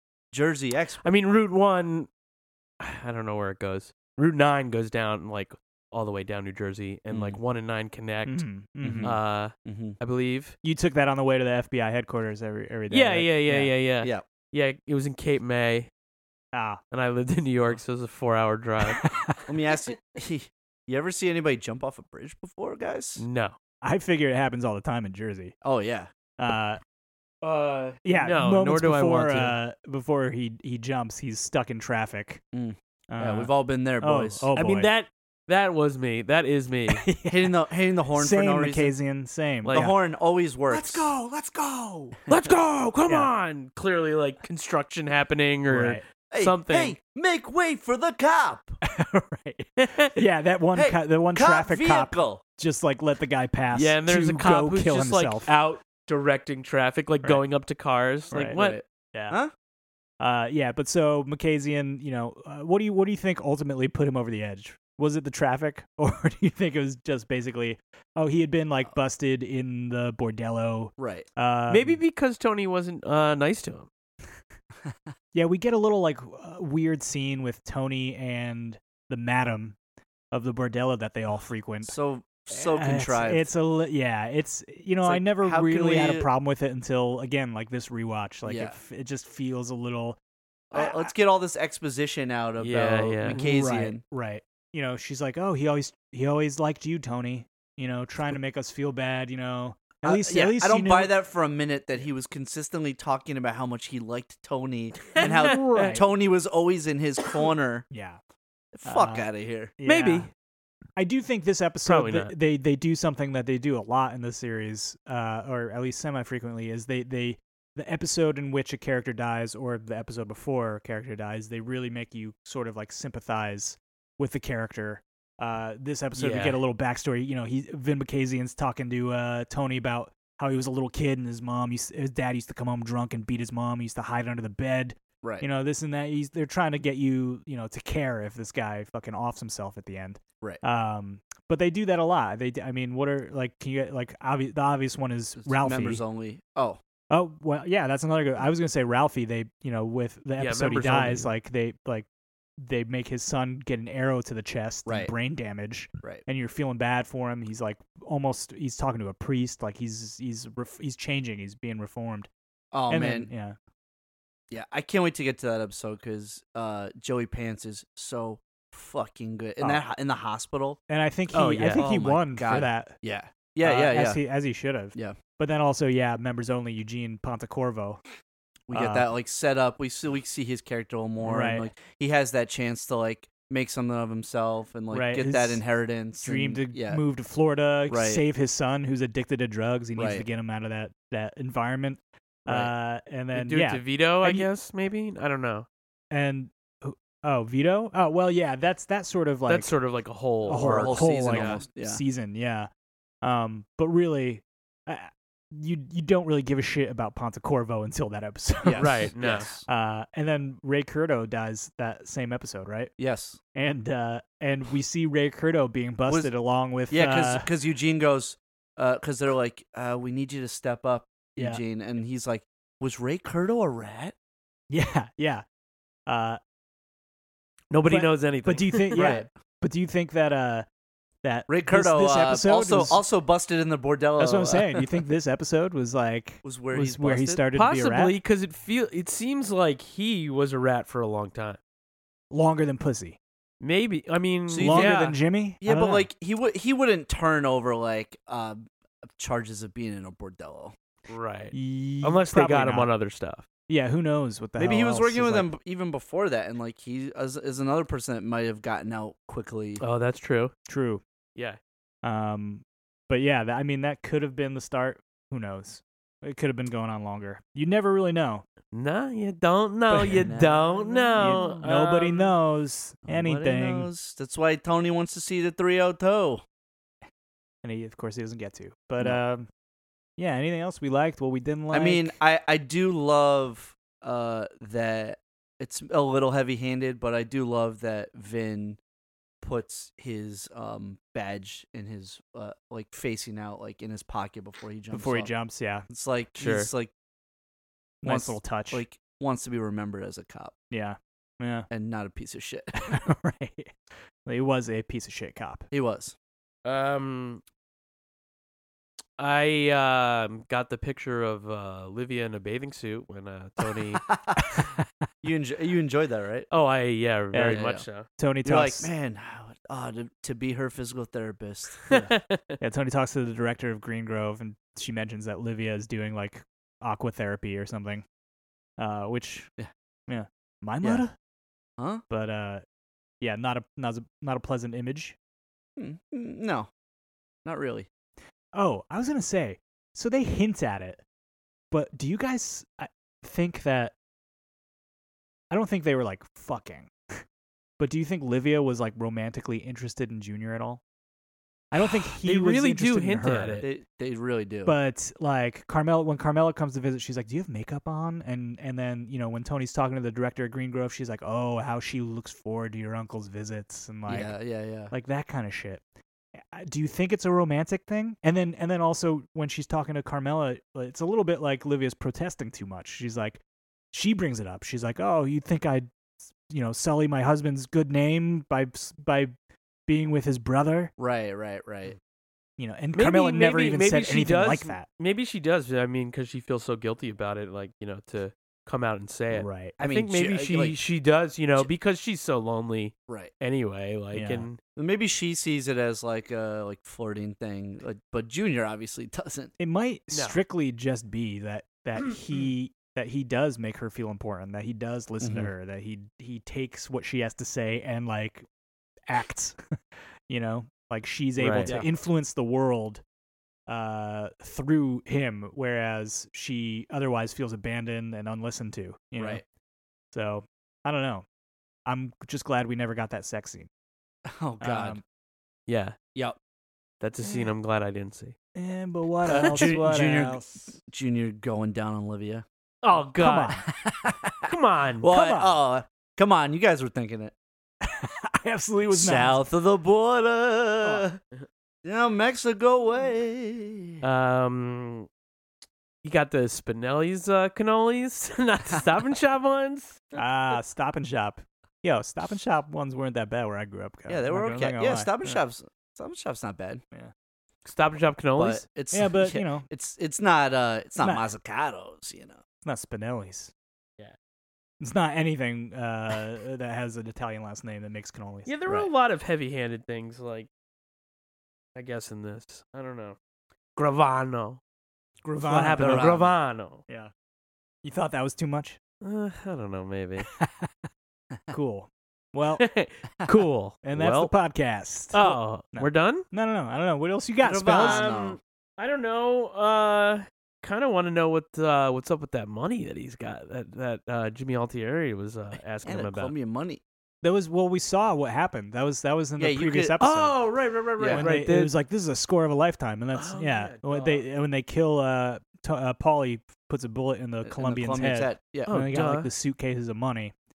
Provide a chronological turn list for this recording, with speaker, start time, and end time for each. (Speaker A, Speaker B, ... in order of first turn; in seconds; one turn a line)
Speaker A: 0.3-1.0
Speaker B: 1.0-2.1
Speaker B: 2.8-8.4
Speaker A: 7.1-7.4
Speaker C: 8.3-9.2
Speaker A: 8.8-10.0
Speaker B: 9.0-10.6
Speaker C: 10.6-13.7
Speaker B: 12.9-15.9
Speaker C: 16.5-16.8
Speaker B: 16.9-19.1
Speaker C: 18.9-19.4
Speaker A: 19.5-23.2
Speaker B: 23.2-23.6
Speaker C: 23.8-25.6
Speaker A: 25.6-26.1
Speaker C: 26.4-26.8
Speaker B: 27.4-29.6
Speaker C: 28.1-32.4
Speaker A: 32.5-34.5
Speaker C: 33.1-34.9
Speaker B: 34.5-37.1
Speaker C: 36.9-37.6
Speaker A: 37.3-38.9
Speaker C: 38.1-40.0
Speaker B: 39.6-39.9
Speaker A: 39.7-41.1
Speaker C: 40.7-42.2
Speaker B: 42.3-47.0
Speaker C: 45.7-46.0
Speaker A: 46.3-48.8
Speaker C: 48.8-55.5
Speaker B: 49.8-50.1
Speaker A: 50.8-52.4
Speaker B: 53.7-58.8
Speaker C: 58.3-58.6
Speaker A: 58.5-59.5
Speaker C: 59.1-59.4
Speaker C: 60.2-72.0
Speaker A: 71.0-71.3
Speaker B: 71.7-73.9
Speaker C: 75.3-79.8
Speaker C: 80.3-81.9
Speaker A: 81.8-83.5
Speaker C: 82.5-90.2
Speaker A: 85.0-86.3
Speaker A: 88.5-88.8
Speaker A: 90.7-94.0
Speaker C: 90.7-91.1
Speaker B: 92.6-93.4
Speaker C: 93.3-101.1
Speaker A: 100.0-107.9
Speaker B: 105.1-105.9
Speaker C: 105.2-106.1
Speaker C: 107.9-108.2
Speaker A: 108.7-109.7
Speaker C: 108.8-109.3
Speaker C: 109.8-110.3
Speaker B: 109.8-110.3
Speaker C: 111.0-146.0
Speaker B: 111.9-112.3
Speaker B: 126.2-126.6
Speaker A: 145.4-146.8
Speaker C: 147.1-152.1
Speaker B: 150.4-151.3
Speaker C: 152.6-162.3
Speaker A: 154.9-155.1
Speaker A: 162.7-163.3
Speaker C: 162.9-163.6
Speaker A: 164.5-170.8
Speaker C: 170.9-173.0
Speaker B: 171.3-171.9
Speaker A: 171.8-174.2
Speaker C: 173.6-178.0
Speaker A: 178.7-187.0
Speaker C: 178.7-179.1
Speaker C: 181.2-181.7
Speaker C: 184.9-185.6
Speaker C: 186.2-194.5
Speaker A: 187.9-188.2
Speaker A: 190.0-190.3
Speaker B: 193.3-195.7
Speaker C: 196.1-199.7
Speaker B: 199.5-201.6
Speaker C: 200.5-202.7
Speaker A: 200.5-202.0
Speaker C: 203.2-209.1
Speaker A: 208.6-209.7
Speaker B: 208.8-209.5
Speaker C: 209.7-212.9
Speaker A: 213.0-213.4
Speaker C: 213.5-217.5
Speaker A: 216.9-224.2
Speaker C: 221.4-221.6
Speaker C: 224.7-225.4
Speaker C: 226.1-226.4
Speaker B: 227.7-229.1
Speaker C: 227.9-230.7
Speaker A: 228.9-229.3
Speaker C: 231.2-233.0
Speaker A: 231.5-234.9
Speaker C: 234.2-238.2
Speaker A: 236.4-237.4
Speaker B: 237.5-241.6
Speaker C: 242.3-243.2
Speaker B: 243.6-245.2
Speaker A: 244.5-250.7
Speaker C: 244.6-246.1
Speaker B: 251.1-253.5
Speaker C: 251.5-252.9
Speaker C: 253.7-255.5
Speaker A: 254.6-259.8
Speaker B: 259.8-260.5
Speaker C: 260.7-261.0
Speaker C: 262.0-268.4
Speaker B: 268.7-272.3
Speaker C: 269.9-270.4
Speaker A: 270.1-271.5
Speaker C: 271.2-273.9
Speaker A: 273.1-276.4
Speaker C: 277.6-279.5
Speaker C: 280.2-282.2
Speaker A: 281.7-288.8
Speaker A: 289.4-295.3
Speaker C: 294.9-295.9
Speaker A: 295.9-296.9
Speaker B: 296.4-296.7
Speaker C: 298.0-298.8
Speaker A: 298.0-300.5
Speaker C: 300.7-301.7
Speaker A: 301.7-302.9
Speaker C: 302.8-303.7
Speaker C: 304.2-305.7
Speaker A: 305.7-306.1
Speaker B: 306.6-307.4
Speaker B: 309.2-314.0
Speaker A: 314.0-314.6
Speaker C: 314.5-314.8
Speaker A: 315.2-316.5
Speaker B: 316.5-318.1
Speaker C: 317.3-317.6
Speaker A: 317.5-317.9
Speaker C: 318.2-318.9
Speaker A: 318.4-322.1
Speaker B: 321.9-322.6
Speaker C: 322.6-328.0
Speaker C: 328.8-329.5
Speaker C: 330.1-331.1
Speaker A: 331.8-332.0
Speaker C: 332.1-332.6
Speaker C: 333.2-335.2
Speaker A: 335.8-336.7
Speaker A: 337.4-337.9
Speaker C: 338.6-341.0
Speaker C: 341.7-343.9
Speaker C: 345.5-347.2
Speaker C: 347.8-350.8
Speaker C: 351.7-353.7
Speaker B: 352.2-353.7
Speaker A: 353.6-354.7
Speaker C: 354.6-364.4
Speaker A: 364.1-364.9
Speaker C: 364.9-365.8
Speaker C: 366.4-373.4
Speaker C: 373.9-379.3
Speaker C: 379.9-380.9
Speaker A: 381.0-382.0
Speaker C: 382.6-384.9
Speaker B: 383.0-394.6
Speaker C: 389.3-389.8
Speaker A: 389.8-390.8
Speaker C: 394.1-394.5
Speaker A: 394.8-399.5
Speaker C: 399.6-408.4
Speaker A: 405.2-405.5
Speaker C: 409.1-409.6
Speaker C: 410.3-413.0
Speaker B: 411.4-411.8
Speaker A: 411.6-411.9
Speaker C: 413.7-419.4
Speaker A: 419.2-419.4
Speaker C: 420.1-421.2
Speaker C: 421.9-423.7
Speaker A: 424.3-425.0
Speaker C: 424.6-425.0
Speaker B: 425.7-426.0
Speaker B: 427.0-428.4
Speaker C: 428.6-430.4
Speaker A: 429.3-432.4
Speaker B: 429.3-429.8
Speaker B: 432.8-433.6
Speaker C: 433.2-433.6
Speaker A: 433.7-437.3
Speaker B: 434.5-435.1
Speaker C: 435.1-435.5
Speaker C: 437.8-439.4
Speaker A: 438.9-441.2
Speaker A: 441.9-444.0
Speaker B: 444.0-445.1
Speaker B: 446.0-450.2
Speaker C: 450.2-455.4
Speaker A: 454.1-456.8
Speaker B: 457.6-458.6
Speaker A: 458.4-462.4
Speaker C: 458.9-459.7
Speaker C: 461.0-461.3
Speaker C: 462.6-463.5
Speaker C: 464.8-468.5
Speaker B: 468.5-470.5
Speaker B: 471.8-473.2
Speaker B: 473.8-474.6
Speaker C: 475.2-476.2
Speaker B: 475.4-476.8
Speaker A: 475.8-476.3
Speaker C: 477.8-478.8
Speaker B: 479.0-480.3
Speaker C: 480.3-480.7
Speaker C: 481.5-482.6
Speaker B: 482.6-484.3
Speaker C: 483.8-488.1
Speaker B: 485.1-486.2
Speaker A: 487.4-488.4
Speaker B: 487.7-496.3
Speaker A: 495.9-496.8
Speaker C: 497.2-500.4
Speaker A: 499.4-500.0
Speaker B: 500.0-501.7
Speaker A: 501.0-501.3
Speaker C: 501.1-510.3
Speaker B: 503.1-504.2
Speaker A: 507.4-508.7
Speaker B: 508.7-509.3